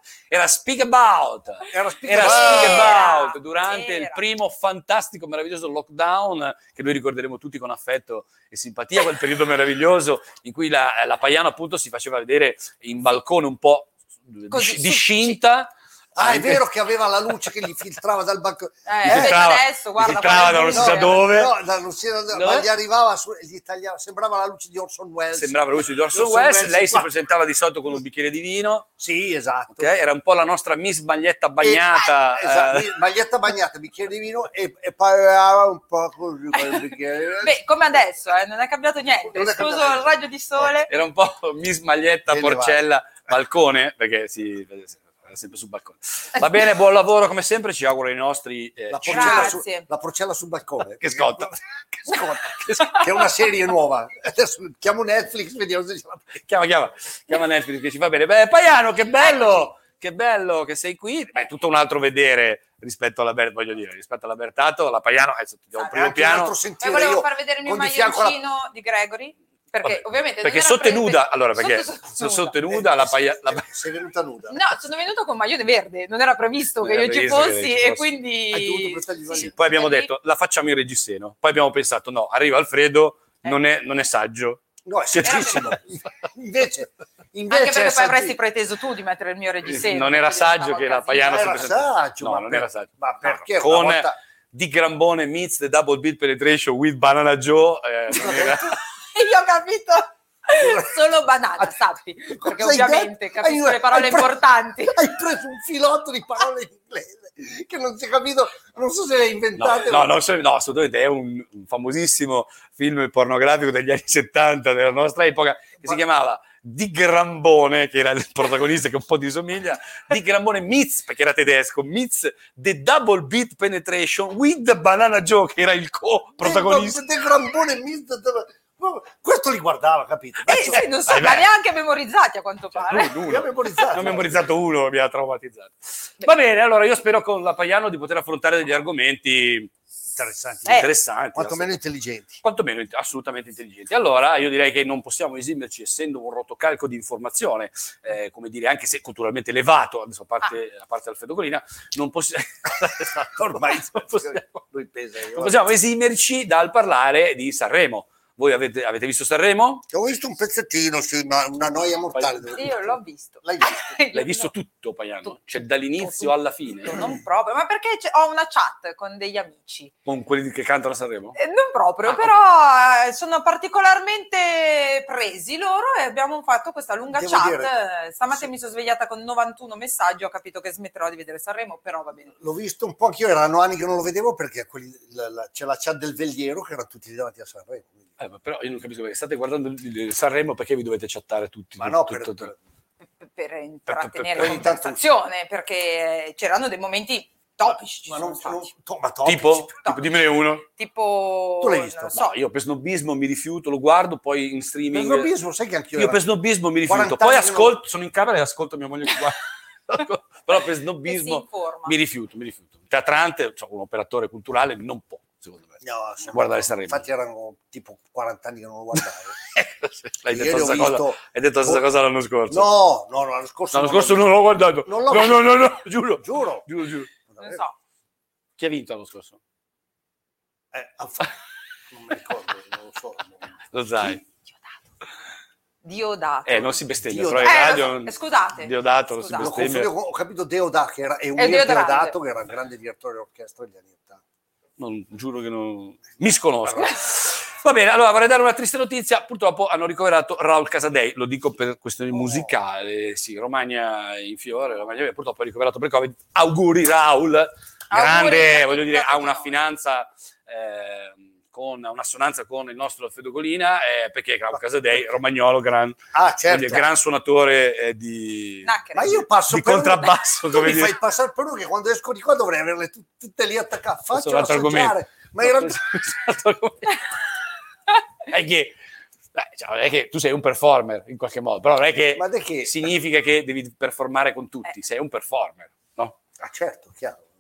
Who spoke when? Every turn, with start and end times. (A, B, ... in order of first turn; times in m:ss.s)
0:00.3-0:16.6 A
0:01.7-0:03.1 B
0:02.1-0:04.2 C
0:14.5-0:15.4 C
0:16.2-0:19.4 B
0:18.9-0:21.3 C
0:19.0-0:21.5 A
0:20.7-0:27.1 B
0:22.3-0:22.7 A
0:25.3-0:28.9 A
0:29.0-0:29.9 B
0:29.7-0:32.9 A
0:31.6-0:37.5 B
0:37.4-0:40.9 C
0:39.3-0:40.1 B
0:40.9-0:49.6 A
0:42.3-0:42.8 B
0:48.9-0:51.5 B
0:49.0-0:49.8 C
0:51.0-0:53.1 A
0:52.0-0:56.4 B
0:56.4-1:06.5 A
0:59.2-0:59.7 C
1:05.8-1:06.0 C
1:05.9-1:08.4 B
1:06.8-1:12.6 C
1:09.8-1:13.7 A
1:12.7-1:14.6 B
1:14.5-1:20.1 C
1:16.8-1:18.1 A
1:18.5-1:19.5 B
1:19.3-1:25.6 A
1:24.8-1:28.4 B
1:25.2-1:25.8 C
1:27.5-1:31.5 C
1:29.6-1:38.7 A
1:31.2-1:34.2 B
1:38.1-1:38.7 B
1:39.1-1:45.0 C
1:40.6-1:41.0 B
1:42.4-1:44.3 B
1:44.8-1:50.1 B
1:49.6-2:07.0 A
2:06.4-2:10.9 B
2:10.4-2:13.2 C
2:11.0-2:11.5 A
2:12.7-2:19.7 A
2:13.2-2:14.4 B
2:20.1-2:22.4 B
2:20.6-2:21.8 A
2:22.4-2:34.6 A
2:33.4-2:35.6 B
2:35.3-2:39.8 A
2:39.9-2:43.9 B
2:42.1-2:42.4 A
2:42.5-2:44.5 C
2:44.1-2:47.0 A
2:46.0-2:49.9 C
2:50.0-2:51.4 A
2:51.4-3:02.4 C
2:57.1-2:57.7 B
3:02.4-3:08.0 B
3:08.2-3:12.5 A
3:11.8-3:12.6 B
3:13.2-3:18.7 C
3:13.9-3:14.7 A
3:14.4-3:15.0 B
3:17.7-3:19.7 B
3:19.2-3:20.6 A
3:20.6-3:22.3 C
3:21.6-3:22.2 B
3:22.1-3:25.3 A
3:24.9-3:26.2 B
3:26.0-3:35.8 A
3:26.8-3:27.8 B
3:31.0-3:31.9 C
3:35.8-3:39.4 B
3:36.3-3:37.0 A
3:39.5-3:42.7 A
3:40.3-3:41.8 B
3:42.5-3:44.3 B
3:43.7-3:47.1 A
3:44.8-3:45.6 B
3:46.2-3:46.7 B
3:47.3-3:47.6 B
3:47.4-3:47.7 C
3:48.6-3:49.4 A
3:50.7-3:51.3 B
3:51.9-3:53.4 B
3:53.7-3:54.2 A
3:55.8-3:56.8 C
3:56.4-3:59.9 A
3:57.0-3:57.9 B
3:57.4-3:59.5 C
3:59.4-4:04.2 B
4:01.4-4:02.2 C
4:04.8-4:31.0 A
4:12.1-4:12.5 B
4:17.9-4:19.6 C
4:26.1-4:26.9 B
4:28.6-4:29.2 C
4:28.9-4:35.8 B
4:34.1-4:37.0 A
4:38.3-4:38.8 A
4:39.3-4:46.2 A
4:42.1-4:42.7 B
4:46.4-4:47.3 B